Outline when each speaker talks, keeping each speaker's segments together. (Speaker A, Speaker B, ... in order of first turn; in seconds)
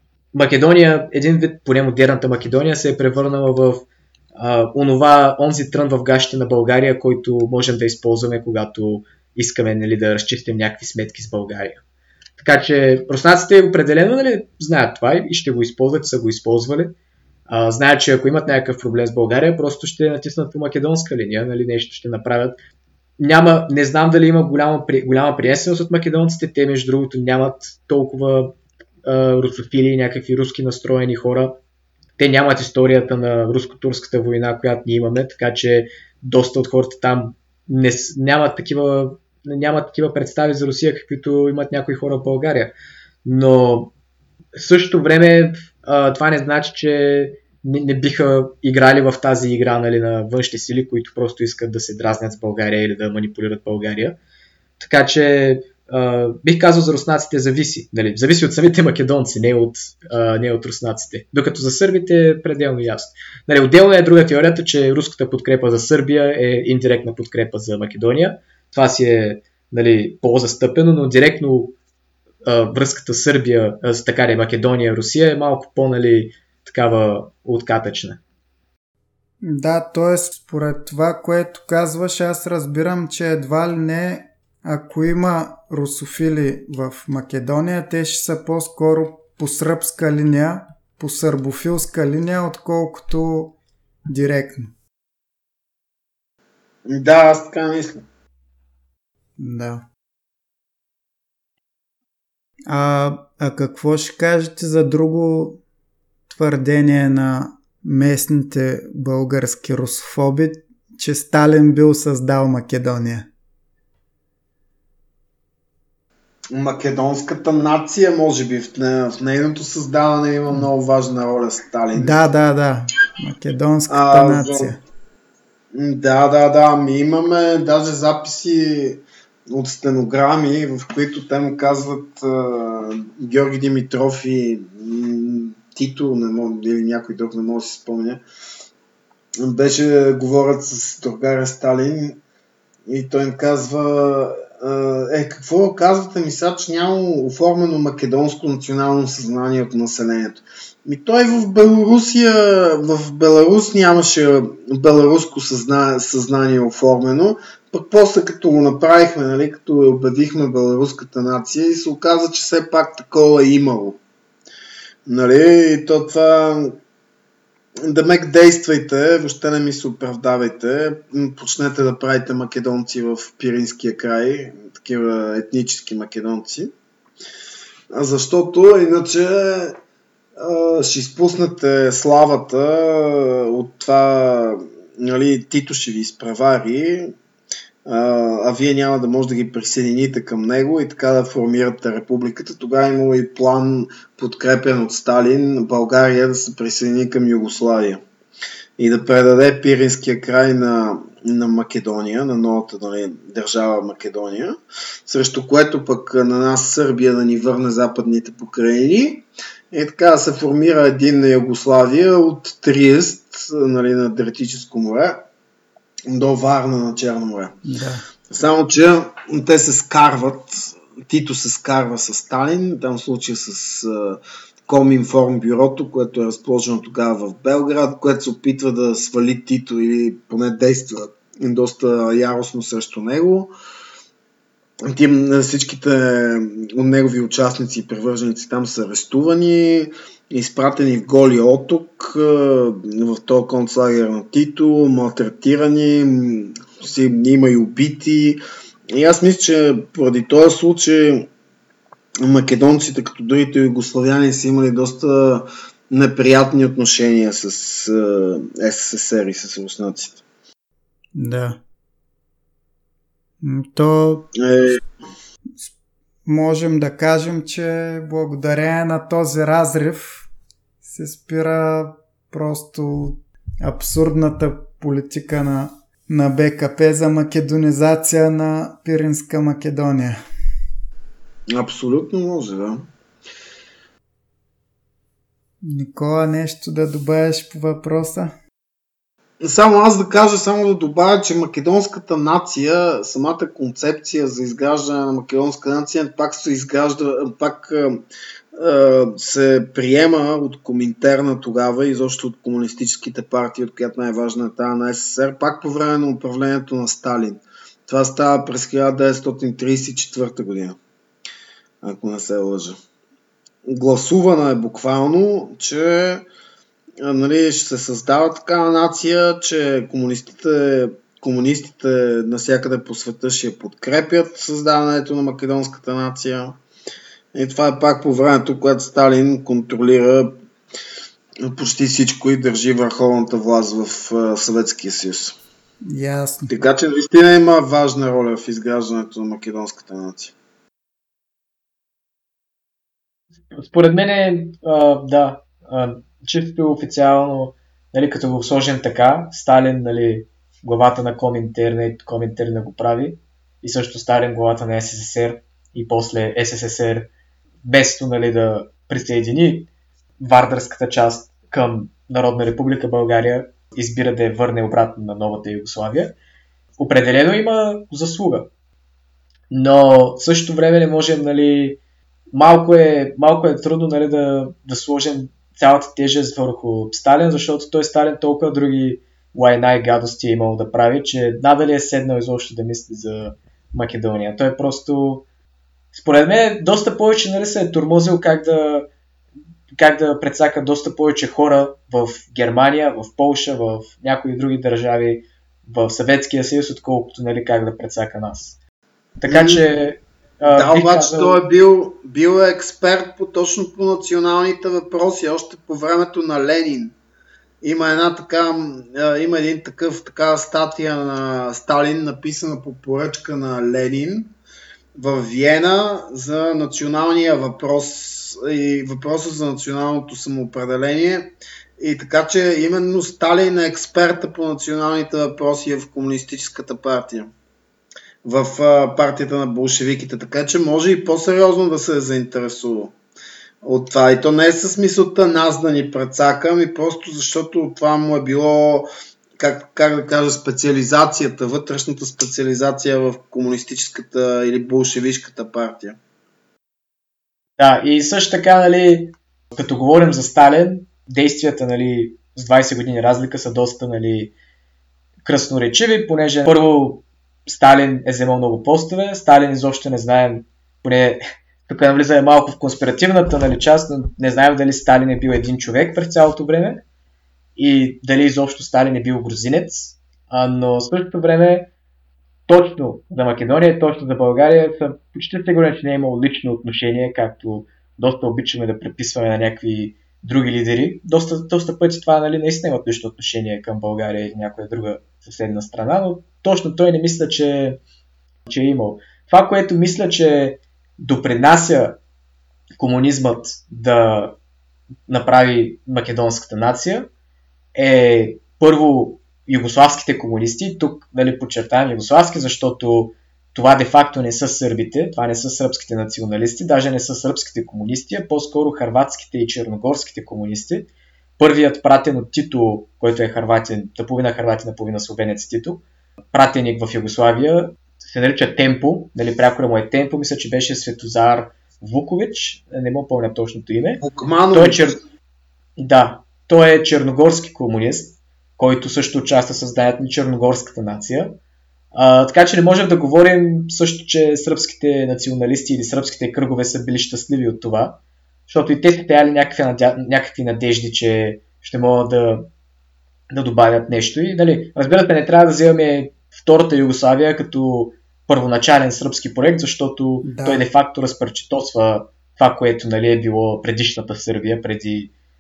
Speaker A: 0.3-11.8, 12.4-16.9, 17.5-22.6, 23.2-28.5, 29.1-31.6, 32.2-42.7, 43.2-43.9, 44.5-54.2, 54.8-71.8, 72.5-78.2, 343.5-357.1, 357.6-359.7, 360.2-366.1, 366.8-368.5, 369.5-371.8, 372.3-385.3, 385.9-388.9, 389.8-398.6, 399.2-401.4, 447.6-454.3, 455.2-466.8, 467.6-471.7, 472.5-487.8, 488.5-492.0, 492.8-494.4, 495.1-497.1, 497.8-515.8, 516.3-525.0, 525.8-531.4, 531.9-542.5, 543.3-555.1
Speaker B: 79.4-93.6, 94.1-94.7, 99.4-99.8, 102.7-105.6, 106.3-113.3, 122.0-124.8, 217.7-218.0, 261.1-261.6, 263.4-264.3, 266.2-270.3, 270.8-280.2, 285.6-288.4, 335.9-336.5, 550.2-550.6
Speaker C: 96.9-98.0, 116.5-122.2, 123.9-124.7, 125.7-138.2, 139.4-142.2, 142.9-164.0, 165.1-166.8, 167.8-176.7, 177.9-179.8, 180.4-187.1, 187.8-198.0, 198.8-204.6, 205.1-215.2, 216.1-217.6, 218.3-233.5, 234.8-251.3, 252.2-260.2, 264.4-264.8, 281.5-282.9, 289.4-298.0, 298.6-310.8, 311.8-312.8, 313.6-316.2, 317.0-326.6, 327.3-330.4, 331.4-335.4, 336.5-340.3, 399.3-399.6, 400.5-406.9, 407.6-414.3, 414.9-427.3, 428.2-432.9, 433.6-446.0, 524.0-525.0